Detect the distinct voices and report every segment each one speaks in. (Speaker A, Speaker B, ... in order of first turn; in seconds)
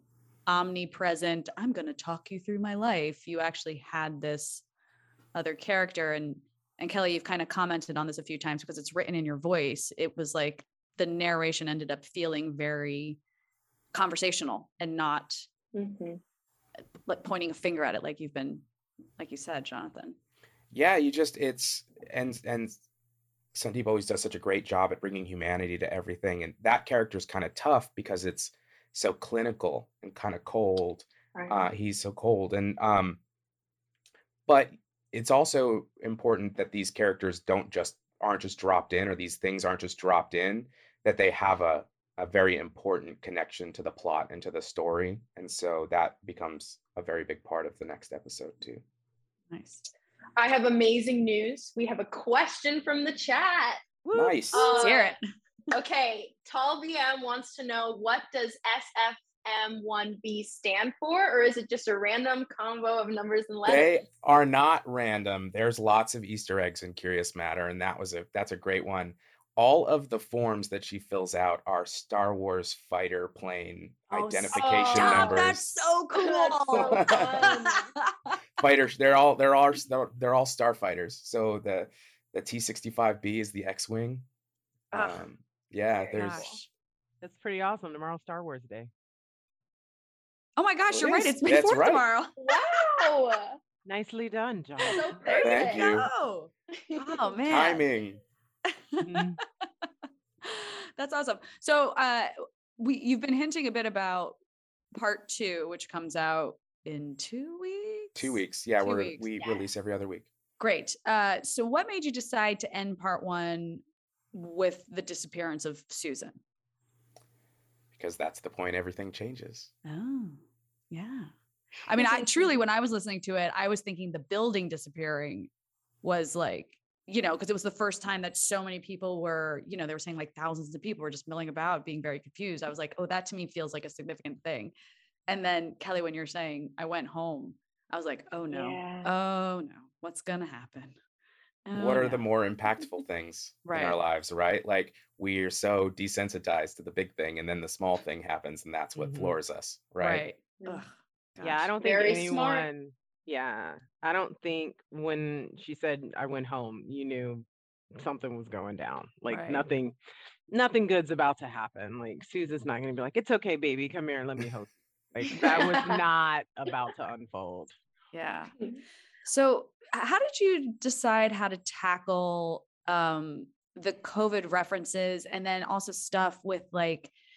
Speaker A: 0.5-4.6, 5.3-13.2, 13.9-15.4, 17.1-18.6, 19.2-20.1, 49.5-49.9, 54.0-55.2, 74.1-78.0, 84.9-85.2, 86.1-86.4, 90.6-92.4, 95.1-97.8, 98.7-99.2, 100.4-104.4, 104.9-109.3, 110.6-113.8, 114.3-116.4, 119.8-121.3, 121.9-125.5, 126.0-134.7, 135.3-140.9, 141.7-142.2, 143.6-144.0, 150.0-151.7, 159.3-159.7, 168.1-168.5, 169.3-177.1
Speaker B: 15.7-16.2, 31.4-31.6, 50.4-53.9, 54.5-55.1, 55.7-64.0, 74.5-75.4, 76.2-77.9, 92.4-93.6, 94.9-95.9, 122.0-122.5, 138.5-139.1, 151.8-152.7, 165.5-165.9
Speaker C: 20.7-22.7, 23.5-33.2, 34.5-48.8, 54.1-54.7, 63.6-75.8, 76.7-77.5, 78.6-84.2, 84.9-86.7, 90.9-92.0, 95.4-96.1, 97.5-98.2, 108.2-110.3, 117.9-119.7, 141.7-150.2
Speaker D: 87.2-88.9, 93.8-95.1, 99.0-99.4, 148.9-149.3, 151.4-159.9, 160.5-167.7